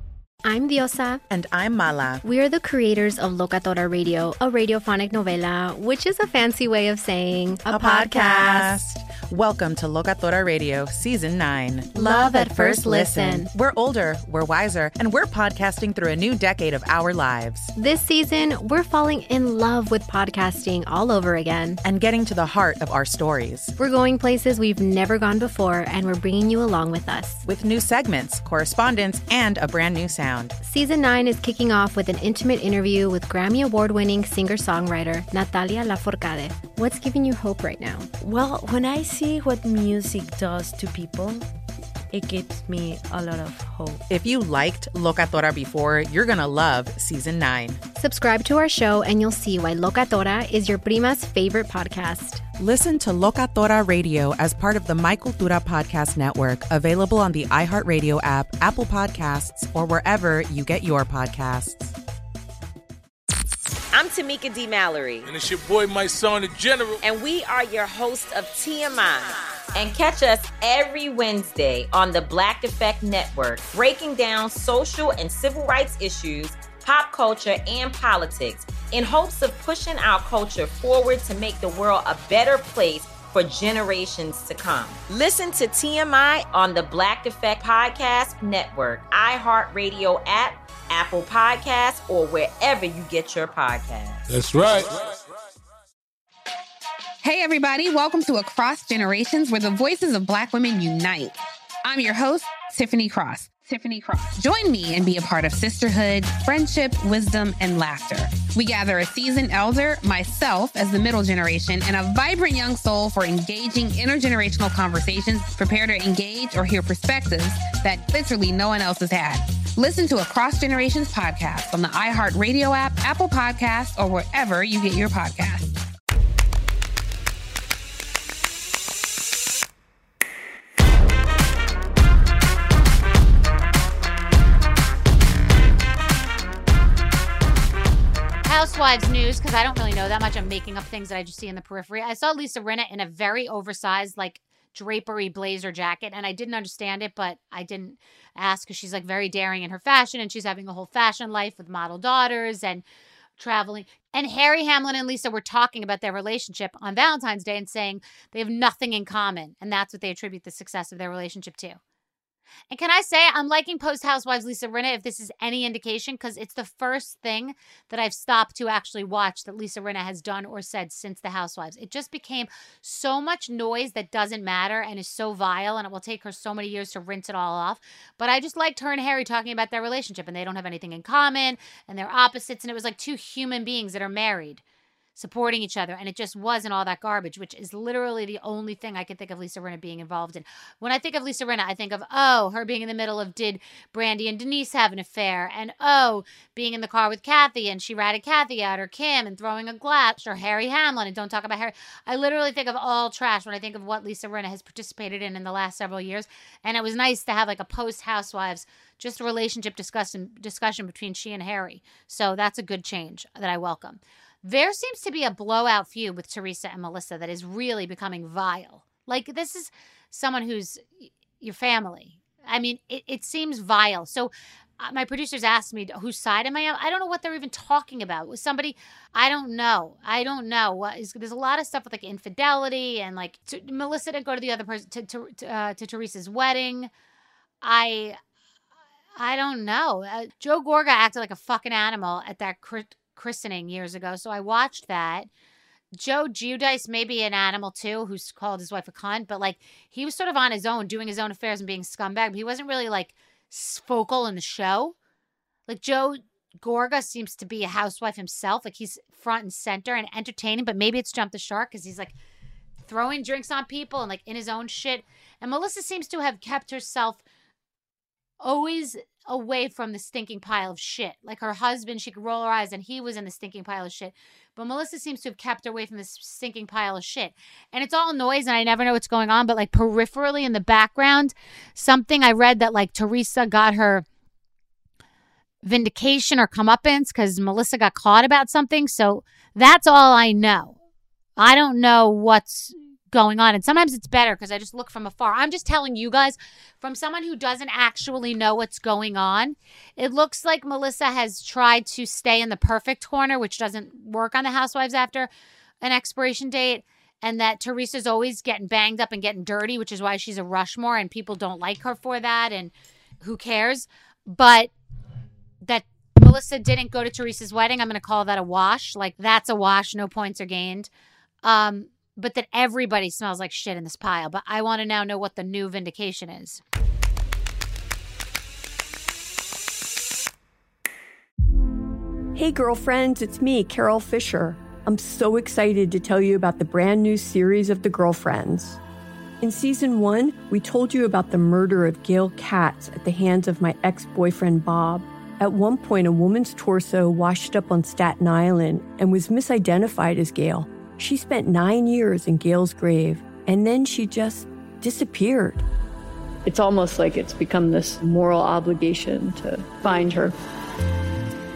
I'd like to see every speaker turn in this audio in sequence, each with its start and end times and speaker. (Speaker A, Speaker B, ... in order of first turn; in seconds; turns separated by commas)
Speaker A: 0.4-1.2, Speaker B: 1.3-2.2, Speaker A: 2.2-8.8, Speaker B: 7.7-17.7, Speaker A: 11.9-13.5, Speaker A: 17.8-21.8, Speaker B: 21.8-23.7, Speaker A: 23.8-27.4, Speaker B: 27.4-30.6, Speaker A: 30.6-38.1, Speaker C: 38.2-41.4, Speaker C: 42.1-44.0, Speaker B: 44.1-47.8, Speaker A: 48.0-52.4, Speaker B: 52.6-62.0, Speaker D: 63.9-65.2, Speaker E: 65.3-67.0, Speaker D: 67.2-94.1, Speaker E: 94.3-94.9, Speaker F: 97.2-125.7, Speaker G: 138.4-152.8, Speaker G: 153.4-161.8, Speaker G: 162.7-184.6, Speaker G: 185.2-236.9, Speaker G: 237.6-238.2, Speaker G: 239.2-245.3, Speaker G: 246.0-254.9, Speaker G: 255.7-262.1, Speaker G: 262.9-267.2, Speaker G: 268.4-284.1, Speaker G: 285.6-290.8, Speaker G: 291.4-305.3, Speaker G: 305.8-314.7, Speaker G: 315.6-320.9, Speaker G: 321.4-326.6, Speaker H: 332.4-338.8, Speaker H: 339.4-355.6, Speaker I: 356.4-360.4